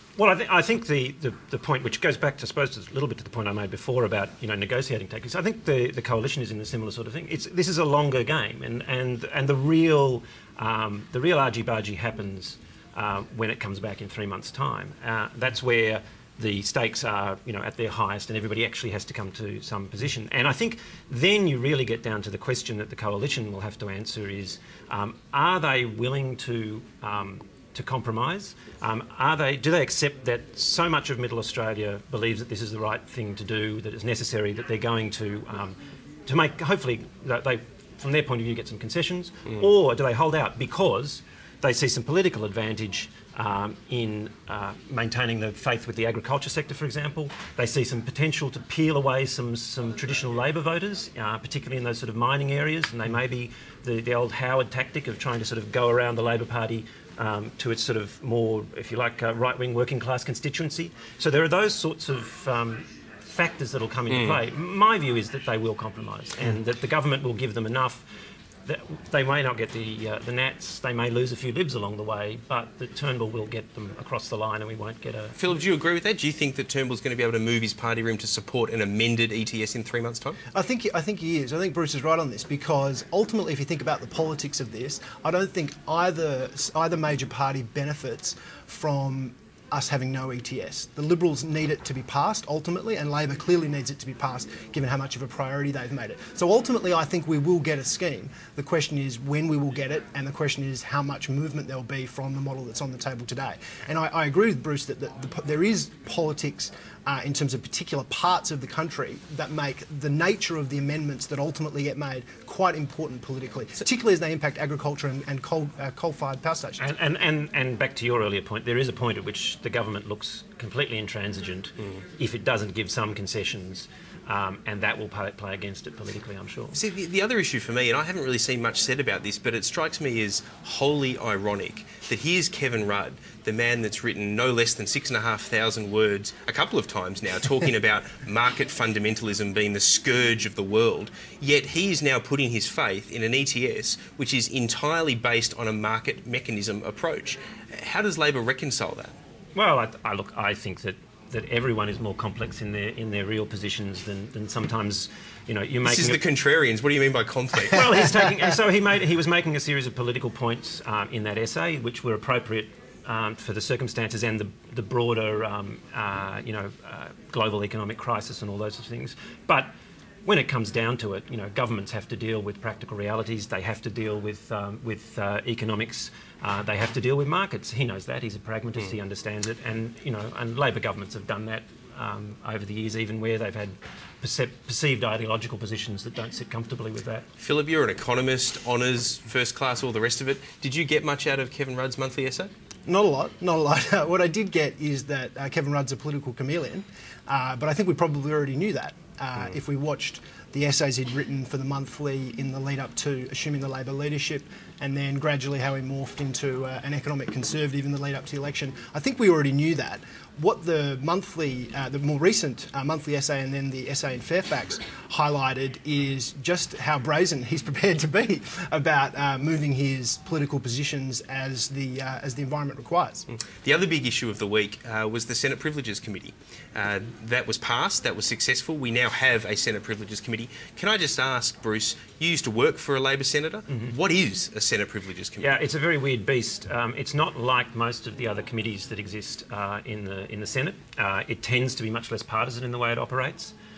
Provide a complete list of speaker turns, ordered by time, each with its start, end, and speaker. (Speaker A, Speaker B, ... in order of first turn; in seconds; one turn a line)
Speaker A: 0.2-68.0
Speaker B: 64.1-64.4
Speaker A: 68.7-75.4
Speaker B: 75.4-80.4
Speaker C: 80.5-116.9
Speaker A: 116.8-126.8
Speaker B: 126.8-149.2
Speaker A: 149.6-156.2
Speaker B: 155.8-158.1
Speaker A: 157.7-169.7
Speaker A: 170.2-187.3
Speaker B: 187.4-192.5
Speaker C: 192.9-223.3
Speaker B: 223.5-235.6
Speaker A: 235.4-243.5